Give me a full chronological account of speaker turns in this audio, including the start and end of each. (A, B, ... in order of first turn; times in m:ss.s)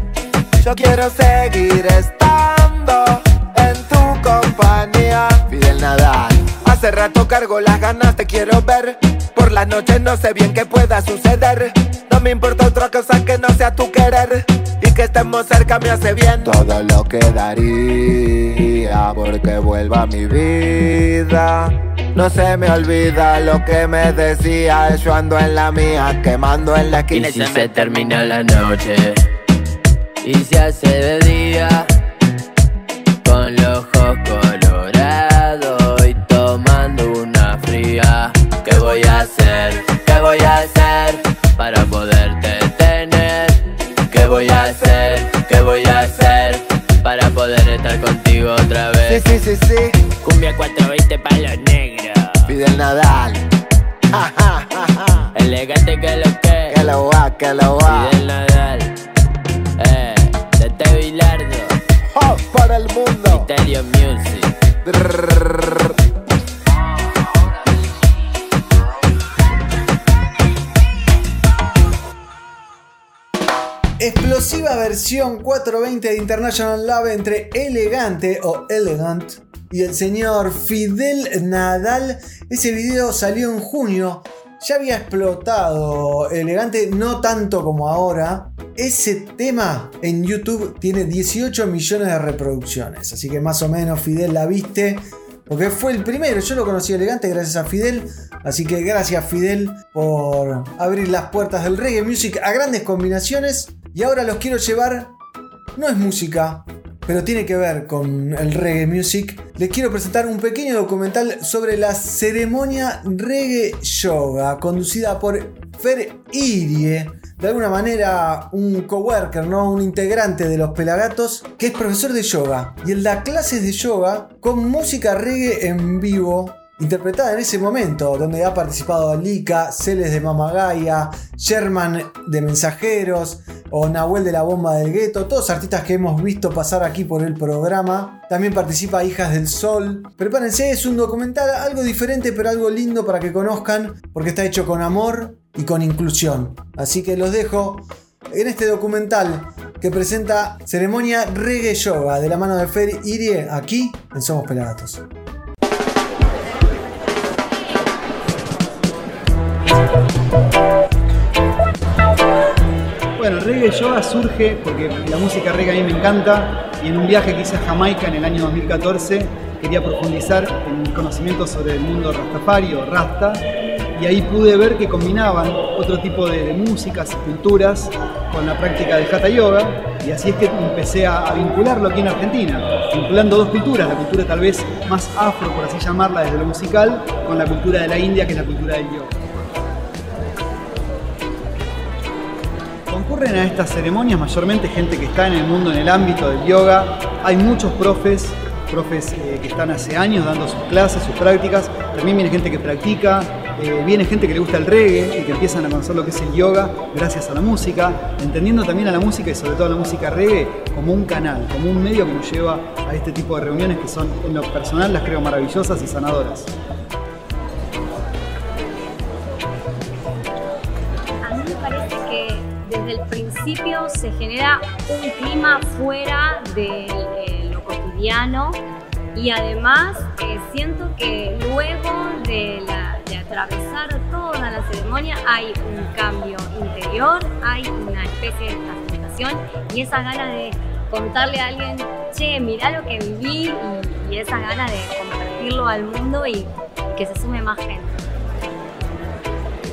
0:00.6-0:27.9 A
0:27.1-0:29.2 B
0:30.2-0:31.9 B
0:33.2-0:49.3 B
0:44.1-0:45.5 A
0:49.1-0:50.0 A
0:50.2-0:52.5 B
0:52.5-0:53.4 A
0:54.1-0:55.3 A
0:55.3-0:56.8 B
0:56.7-0:58.2 A
0:57.8-0:58.9 B
0:59.8-1:01.8 B
1:02.1-1:03.5 A
1:03.3-1:04.5 B
1:04.8-1:05.9 A
1:14.0-1:45.1 C
1:45.8-2:35.0 C
2:43.2-2:53.4 D
2:54.0-3:09.1 D
3:12.9-3:36.5 D
3:41.2-3:48.6 E
3:49.2-4:08.0 E